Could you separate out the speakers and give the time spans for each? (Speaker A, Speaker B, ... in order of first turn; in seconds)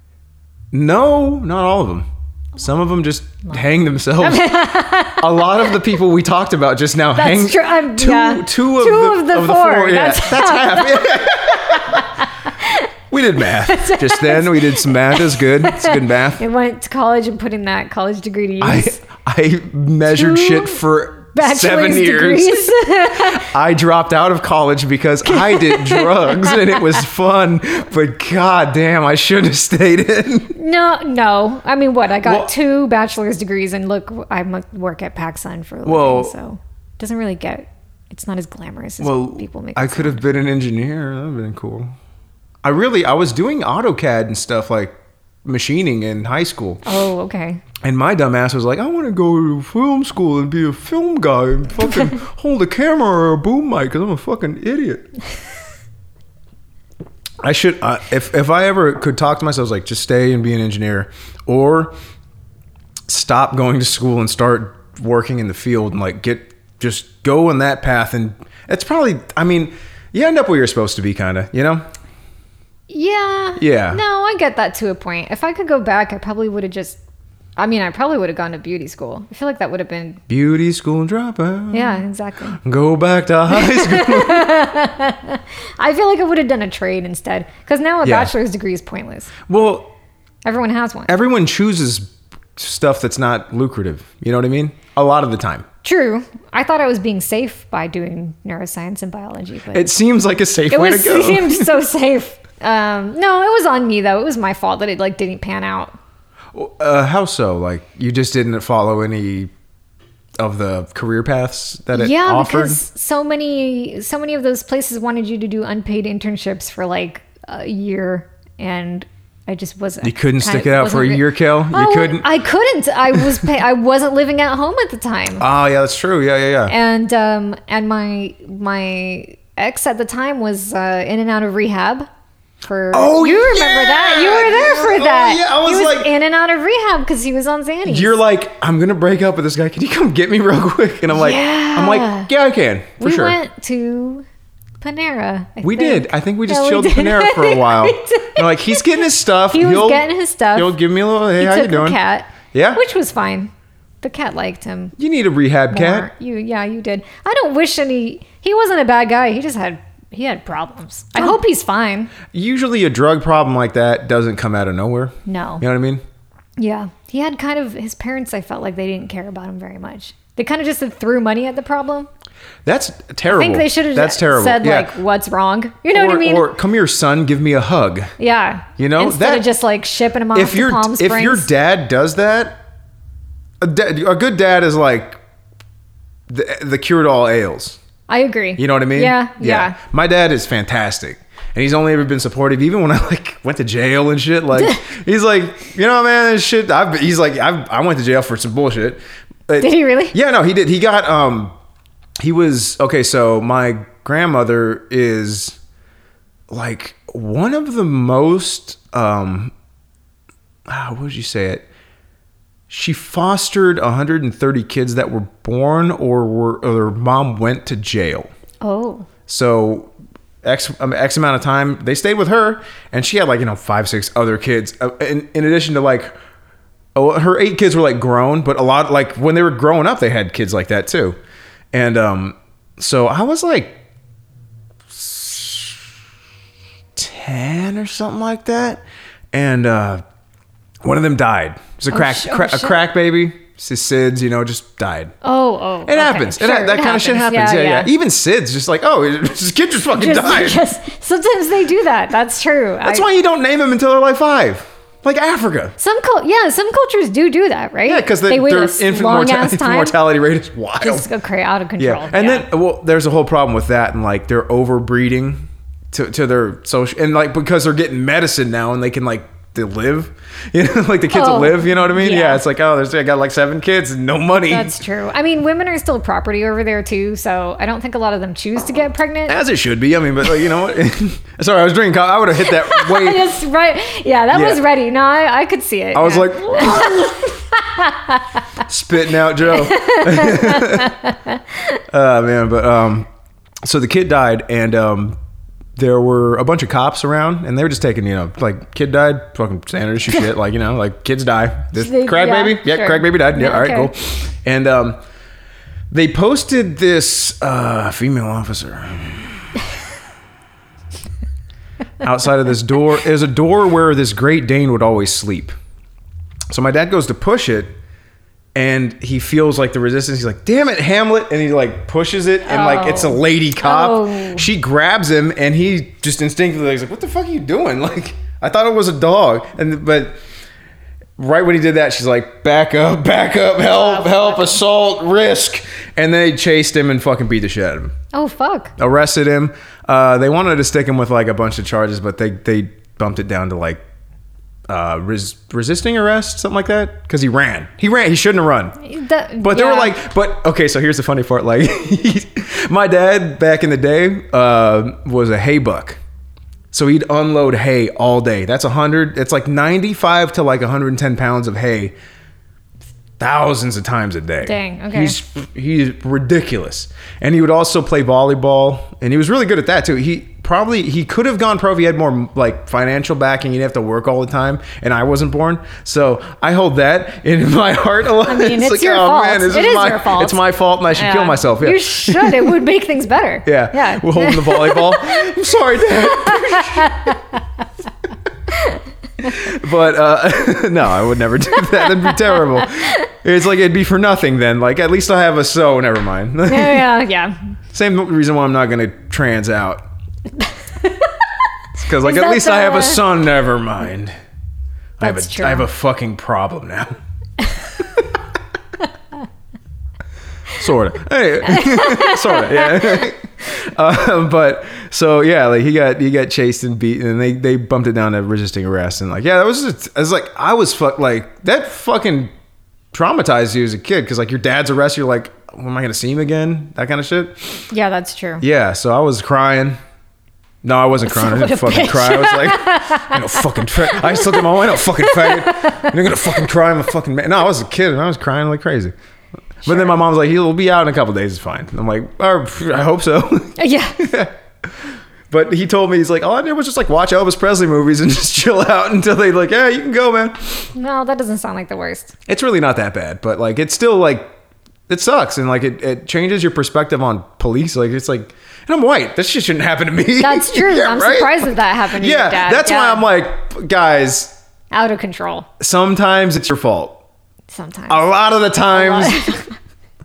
Speaker A: 0.7-4.5, 5.2-12.1, 13.1-16.4, 18.6-30.6, 32.2-32.5, 35.9-36.3, 39.0-41.9, 42.6-46.8, 47.8-55.0, 57.4-61.9, 63.1-71.8, 73.6-74.0, 80.3-82.0, 82.6-84.6, 88.0-88.3, 89.5-89.9, 91.1-95.7, 99.7-101.7, 106.5-109.5, 110.4-112.8, 120.0-122.3, 125.4-126.7, 132.9-136.1, 137.8-143.4, 145.6-152.0, 152.5-152.8, 155.0-156.1, 162.3-166.0, 172.7-175.0, 175.9-178.1, 178.8-179.5, 180.3-182.6, 183.6-185.2, 186.3-187.8, 188.6-201.5, 202.2-205.6, 206.5-209.5, 210.7-211.7, 212.7-218.3, 219.3-219.9, 220.4-226.1, 226.9-231.2, 231.7-233.8, 234.9-235.9, 236.9-240.0, 240.8-245.1, 245.9-250.7, 252.8-255.8, 257.9-261.1, 261.8-274.8, 279.3-283.3, 284.3-284.6, 285.9-287.2, 288.6-291.0, 291.9-293.1, 293.6-295.2, 295.8-305.0, 305.9-309.4, 312.0-315.6, 316.5-317.7, 318.6-330.2, 331.2-337.9, 338.8-343.8, 344.7-348.8, 349.4-356.0, 356.7-361.9, 363.2-382.6, 383.5-387.2, 389.2-396.9, 397.7-399.8, 401.8-404.1, 405.0-406.9, 410.5-422.3, 422.9-427.7, 428.4-429.8, 430.6-438.9, 439.6-450.7, 452.3-454.3, 454.9-464.4, 465.6-467.0, 467.9-469.3
Speaker B: 4.2-5.7, 7.2-11.2, 11.8-12.9, 13.4-19.0, 20.1-20.8, 21.4-23.5, 25.2-27.0, 30.5-40.2, 46.9-47.6, 72.9-77.0, 77.6-80.2, 81.7-82.6, 83.5-89.3, 90.5-91.1, 95.8-99.9, 100.7-106.0, 111.9-125.5, 126.7-132.1, 132.7-138.2, 141.1-142.3, 143.0-144.2, 144.8-148.9, 149.5-150.8, 151.4-153.5, 154.0-154.9, 155.7-162.1, 165.3-165.6, 166.6-172.1, 173.3-176.5, 178.2-181.5, 188.1-189.8, 194.6-194.8, 199.6-200.2, 218.6-219.1, 241.9-242.8, 245.2-247.9, 249.9-253.1, 255.8-259.9, 260.8-262.5, 271.1-272.4, 274.5-279.4, 282.4-288.4, 289.5-291.8, 301.8-303.9, 322.5-324.5, 333.6-334.6, 338.1-338.7, 348.8-350.0, 364.4-365.2, 378.3-380.4, 380.9-385.3, 386.0-387.4, 388.5-388.8, 391.9-393.0, 396.5-397.4, 400.8-401.1, 402.0-403.0, 405.0-405.7, 411.5-413.1, 427.7-428.4, 431.0-436.2, 439.7-439.9, 443.6-444.0, 450.7-452.1, 460.2-463.1, 464.7-465.5, 467.5-468.1, 468.7-469.5